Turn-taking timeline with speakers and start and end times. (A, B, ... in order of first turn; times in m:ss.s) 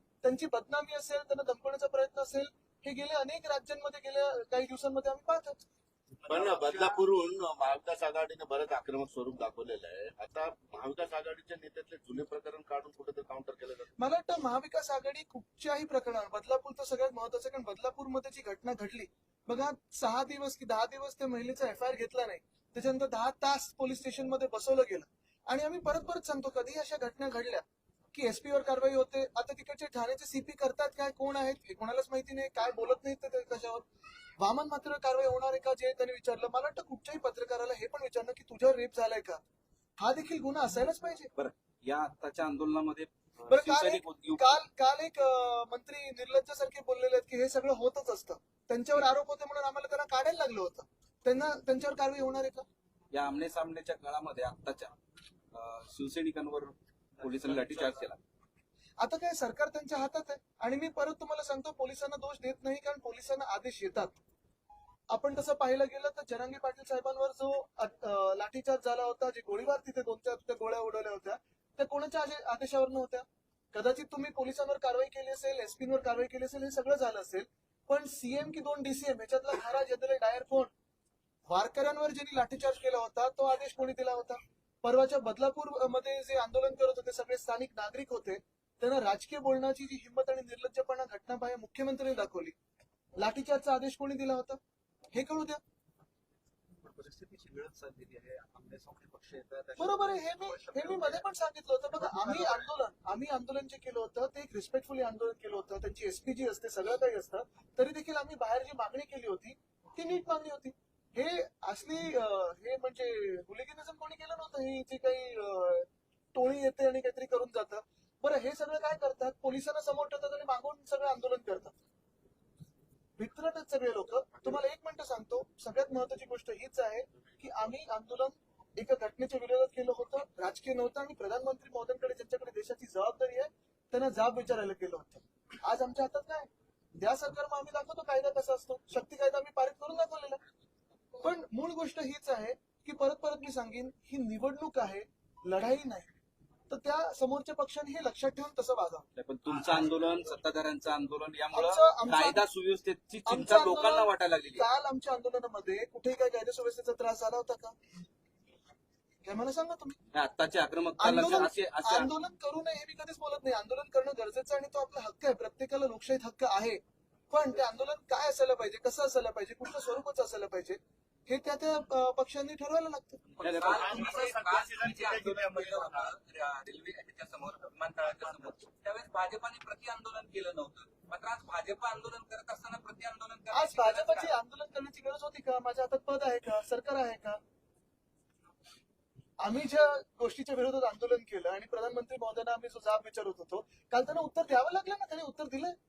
0:00.2-0:05.6 A
0:06.2-0:06.8 B
0:06.2-0:13.9 C
0:14.0-0:33.8 A
0:34.4-0:39.4 A
0:40.0-0:41.3 A
0:41.3-0:44.6 D
0:43.5-0:52.6 A
0:53.1-0:54.9 D
0:55.5-0:58.2 D
0:59.0-1:04.1 A
1:05.1-1:20.7 A
1:21.5-1:32.5 A
1:33.2-1:34.6 A
1:35.1-1:35.6 A
1:36.8-1:41.2 B
1:39.8-2:01.8 A
1:42.0-1:42.6 B
2:03.2-2:20.4 A
2:21.2-2:26.1 A
2:26.7-2:29.0 A
2:29.2-2:34.6 D
2:31.5-2:32.4 A
2:33.2-2:37.7 A
2:39.2-2:40.0 A
2:40.1-2:42.1 D
2:41.0-2:46.8 A
2:47.3-2:53.2 A
2:53.4-2:56.1 B
2:53.4-3:04.3 E
2:53.4-2:54.3 D
3:03.5-3:07.4 A
3:09.4-3:15.8 A